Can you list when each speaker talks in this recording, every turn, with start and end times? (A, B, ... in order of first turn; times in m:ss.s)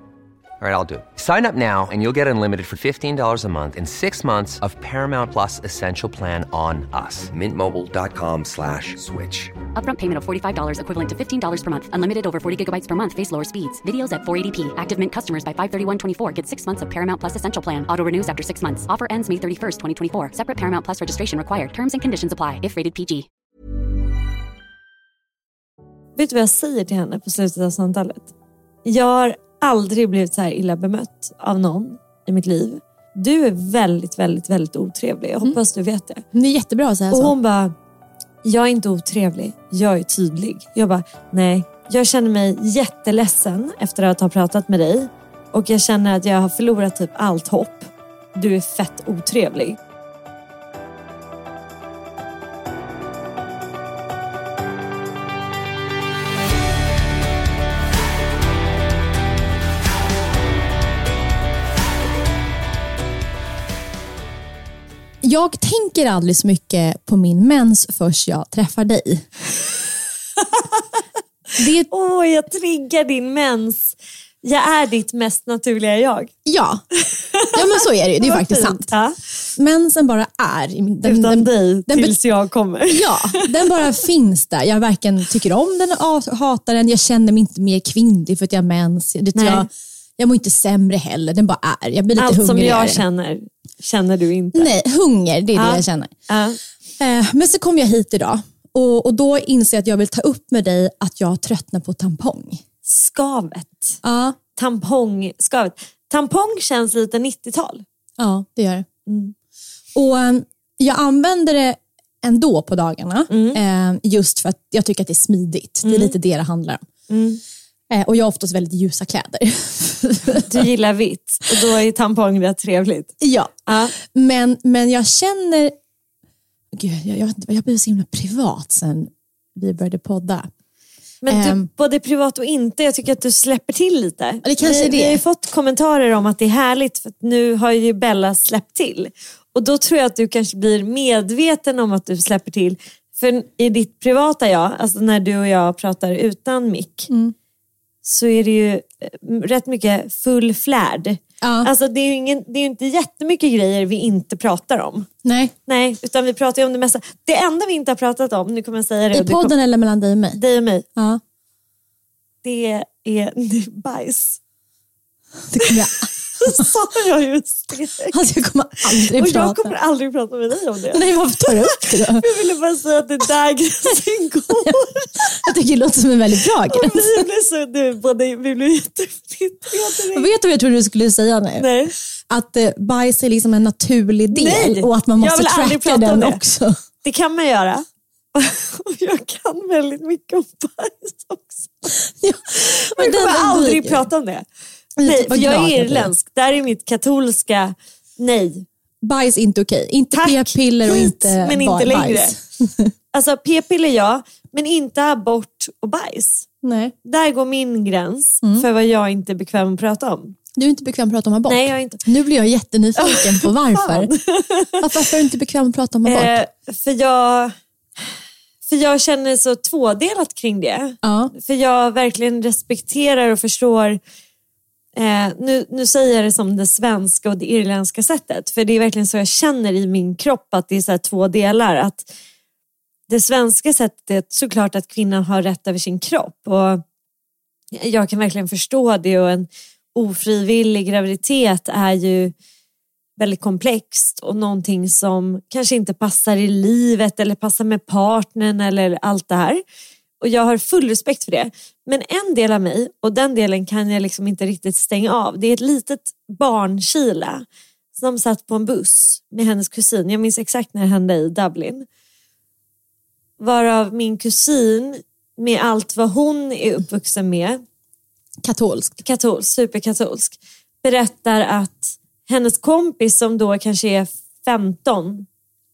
0:00.6-0:09.5 A
0:09.8-0:23.3 B
0:26.2-0:28.3 C
0:28.8-0:36.2 C
0:36.3-0:37.3 D
0:37.1-0:37.8 C
0:38.4-0:49.8 C
1:05.2-1:09.3 D
1:11.6-1:11.9 D
1:11.9-1:16.3 C
1:16.4-1:16.8 D
1:17.0-1:19.2 C
1:17.5-1:18.9 D
1:19.6-1:22.2 D
1:21.0-1:23.9 C
1:22.9-1:33.0 D
1:29.4-1:29.7 C
1:32.2-1:34.7 C
1:34.5-1:36.2 D
1:35.6-1:36.6 C
1:37.0-1:42.6 D
1:42.8-1:44.0 C
1:44.0-1:44.4 D
1:44.6-1:47.8 C
1:48.2-1:48.9 D
1:49.1-1:49.3 C
1:50.0-1:56.8 D
1:53.3-1:53.6 C
1:55.8-1:56.2 C
1:57.1-1:57.4 C
1:57.9-2:00.6 D
2:00.5-2:03.2 C
2:03.2-2:05.8 D
2:03.7-2:04.0 C
2:06.7-2:10.5 D
2:11.2-2:27.1 C
2:11.3-2:11.7 D
2:14.4-2:15.2 D
2:27.1-2:27.3 D
2:28.0-2:35.1 C
2:31.4-2:31.7 D
2:35.2-2:35.5 D
2:35.7-2:39.5 C
2:39.1-2:40.4 D
2:40.4-2:40.8 C
2:41.0-2:41.2 D
2:42.4-2:44.4 C
2:45.5-2:46.7 D
2:45.6-2:48.2 C
2:48.1-2:49.8 D
2:49.0-2:55.4 C
2:50.9-2:52.3 D
2:54.5-2:57.3 D
2:56.7-3:00.3 C
3:00.1-3:01.7 D
3:01.6-3:02.0 C
3:02.3-3:06.8 D
3:04.3-3:06.4 C
3:07.0-3:11.7 C
3:11.9-3:14.0 D
3:12.6-3:14.4 C
3:15.0-3:16.1 D
3:15.0-3:18.7 C
3:19.0-3:22.9 D
3:20.1-3:22.4 C
3:23.1-3:26.5 C
3:26.6-3:26.9 D
3:27.0-3:30.4 C
3:30.6-3:34.1 D
3:31.5-3:32.0 C
3:33.0-3:34.8 C
3:34.8-3:36.4 D
3:36.1-3:37.6 C
3:38.7-3:44.0 C
3:41.0-3:41.3 D
3:45.0-3:52.1 C
3:53.1-3:56.8 C
3:57.7-4:02.3 C
4:03.2-4:09.6 C
4:10.2-4:21.9 C
4:23.4-4:27.6 C
4:28.4-4:29.0 D
4:29.0-4:35.3 C